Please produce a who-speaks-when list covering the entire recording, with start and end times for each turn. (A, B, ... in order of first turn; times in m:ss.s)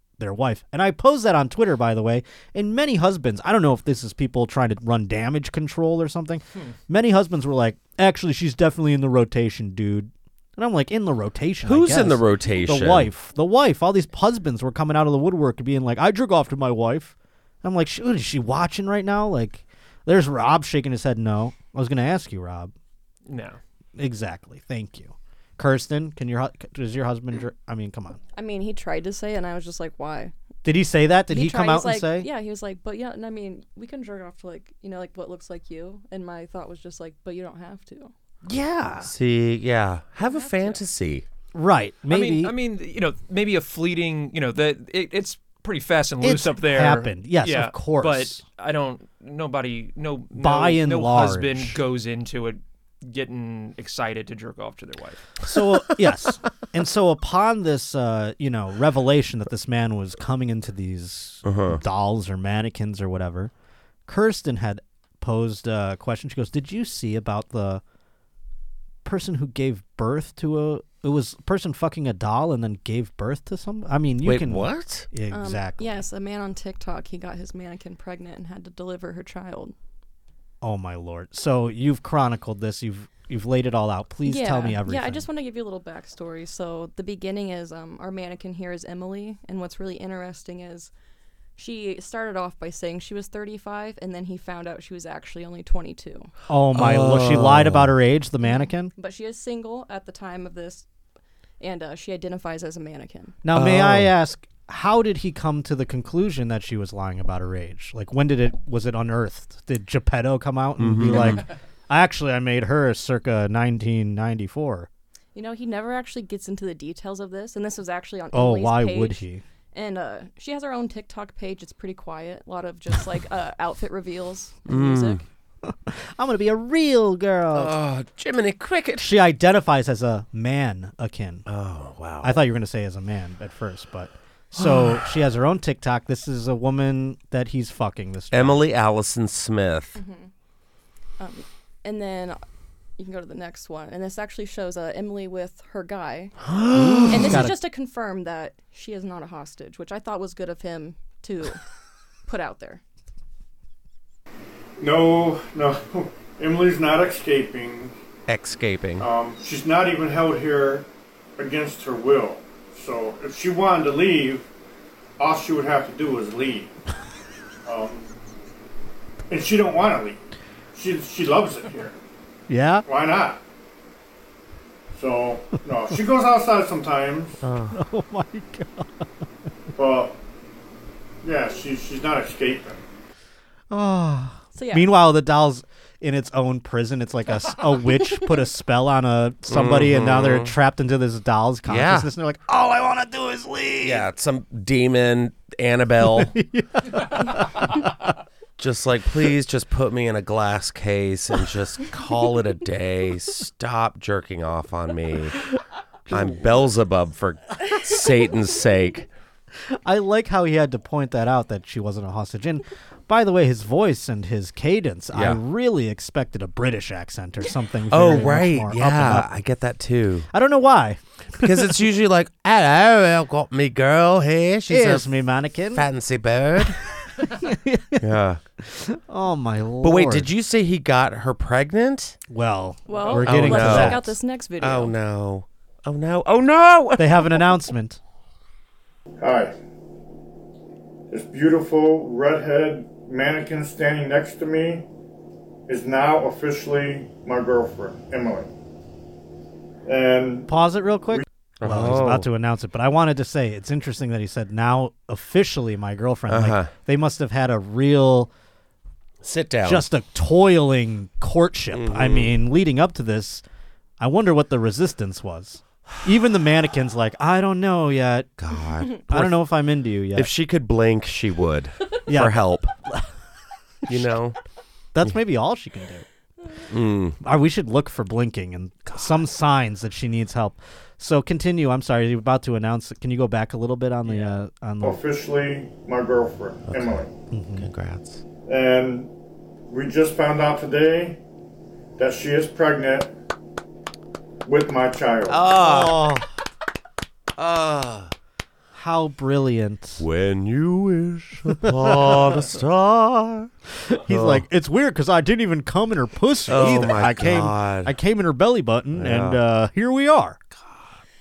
0:00.2-0:22.7 A
0:11.6-0:13.1 B
0:23.3-0:23.6 C
0:24.0-0:28.2 A
0:28.4-0:30.3 D
0:30.6-0:32.3 A
0:31.3-0:38.1 D
0:38.4-0:39.1 A
0:39.0-0:41.2 B
0:40.3-0:40.8 D
0:41.5-0:42.5 A
0:42.1-0:55.4 C
0:46.2-0:48.4 A
0:50.3-0:51.8 A
0:55.4-1:03.5 A
1:01.4-1:01.8 B
1:04.1-1:07.8 A
1:09.0-1:16.0 A
1:14.2-1:15.1 B
1:15.3-1:19.7 D
1:20.6-1:25.2 A
1:24.2-1:30.9 D
1:31.6-1:36.3 D
1:36.5-1:38.9 A
1:36.7-1:37.9 B
1:38.4-1:40.8 D
1:41.6-1:43.4 D
1:43.4-1:54.9 A
1:43.5-1:44.1 B
1:50.8-1:51.4 B
1:55.3-1:59.2 D
1:58.3-1:59.4 A
1:59.7-2:05.2 D
2:04.6-2:05.2 B
2:05.6-2:07.8 A
2:07.5-2:09.1 B
2:09.0-2:11.4 A
2:11.4-2:12.4 B
2:12.2-2:18.6 A
2:14.6-2:15.2 B
2:18.3-2:20.0 B
2:20.0-2:20.3 D
2:21.2-2:22.4 D
2:23.0-2:26.3 D
2:26.4-2:27.5 B
2:26.7-2:27.6 A
2:27.1-2:31.6 D
2:32.3-2:32.8 D
2:34.8-2:37.9 E
2:38.3-2:39.1 B
2:39.0-2:44.5 E
2:45.2-2:46.7 E
2:47.6-2:48.1 E
2:49.3-2:50.2 E
2:50.7-2:52.0 E
2:52.5-2:52.8 A
2:52.8-2:53.4 E
2:54.9-2:57.4 E
2:57.4-2:57.8 B
2:57.7-2:59.1 A
2:59.8-3:00.2 E
3:01.2-3:02.8 E
3:03.7-3:14.1 A
3:04.5-3:04.9 D
3:09.5-3:10.5 B
3:11.6-3:12.1 B
3:13.8-3:16.3 B
3:16.2-3:17.9 A
3:18.6-3:25.4 B
3:26.1-3:29.1 B
3:26.1-3:26.4 A
3:29.8-3:39.3 A
3:35.1-3:35.4 B
3:37.9-3:40.3 B
3:40.3-3:41.6 A
3:41.4-3:45.1 B
3:44.7-3:45.8 A
3:45.7-3:46.8 B
3:46.6-3:48.1 A
3:48.0-3:48.4 B
3:48.6-3:50.3 A
3:49.8-3:52.2 B
3:52.3-3:54.1 A
3:52.9-3:54.9 D
3:53.0-3:57.4 B
3:57.0-3:58.0 A
3:59.2-3:59.5 E
4:01.1-4:04.9 E
4:05.7-4:08.5 E
4:09.8-4:10.5 E
4:10.5-4:18.3 A
4:11.6-4:12.3 B
4:16.3-4:16.7 B
4:19.2-4:19.8 B
4:19.6-4:23.4 A
4:21.7-4:22.4 B
4:24.0-4:28.3 A
4:28.4-4:29.4 B
4:29.1-4:30.3 A
4:30.2-4:32.7 B
4:32.1-4:33.1 A
4:33.9-4:34.4 B
4:34.9-4:36.0 A
4:36.7-4:37.2 B
4:37.2-4:45.0 A
4:44.8-4:47.1 E
4:46.7-4:47.0 B
4:47.3-4:47.7 A
4:47.5-4:48.2 B
4:48.4-4:49.1 E
4:49.7-4:51.2 E
4:52.0-4:53.1 E
4:54.4-4:55.4 E
4:55.3-4:56.2 B
4:55.6-4:56.3 A
4:57.4-4:58.1 B
4:58.7-5:00.0 A
5:00.0-5:03.5 B
5:01.6-5:02.2 A
5:03.9-5:10.4 A
5:04.0-5:04.4 B
5:06.5-5:07.9 B
5:08.9-5:09.4 B
5:10.6-5:10.9 B